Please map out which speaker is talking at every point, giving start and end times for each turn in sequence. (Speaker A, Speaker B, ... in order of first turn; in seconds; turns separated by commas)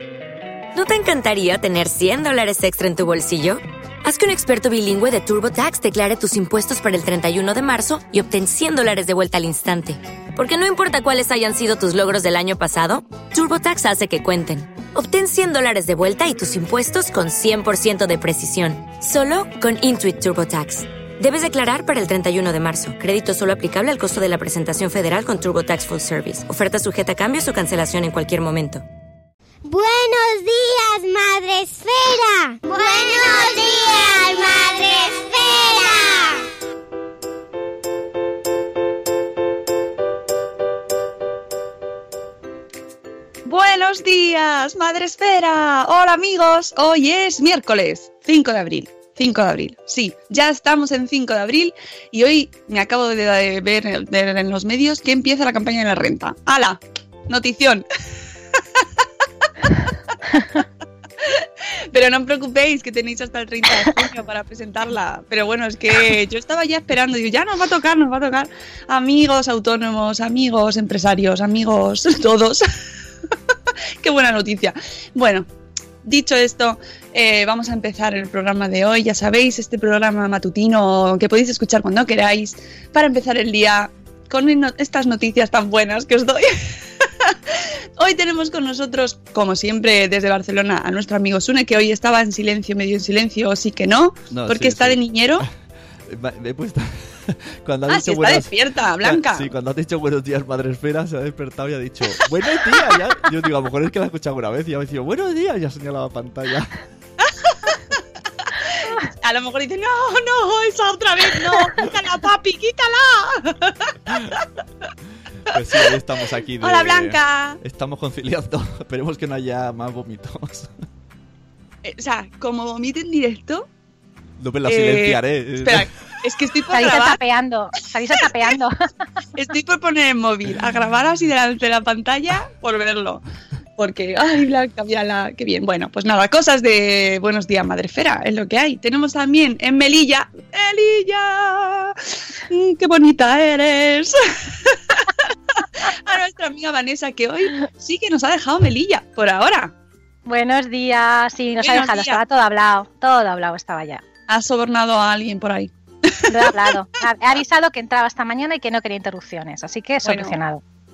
Speaker A: 0.7-28.8, Speaker B: 29.6-36.4, Speaker C: 43.4-57.8, Speaker C: 60.4-60.6, Speaker C: 61.2-72.6, Speaker C: 74.0-75.5, Speaker C: 76.0-95.5, Speaker D: 94.3-95.4, Speaker D: 96.1-106.8, Speaker C: 97.9-99.5, Speaker C: 107.3-107.8, Speaker C: 108.5-114.4, Speaker D: 115.5-120.7, Speaker C: 116.6-117.6, Speaker C: 121.8-123.7, Speaker D: 124.4-126.2, Speaker C: 124.7-127.2, Speaker E: 126.7-128.7, Speaker C: 129.4-133.2, Speaker C: 133.8-149.7, Speaker E: 150.2-154.0, Speaker C: 151.6-152.2, Speaker C: 154.3-156.6, Speaker E: 156.3-160.6, Speaker C: 160.0-160.3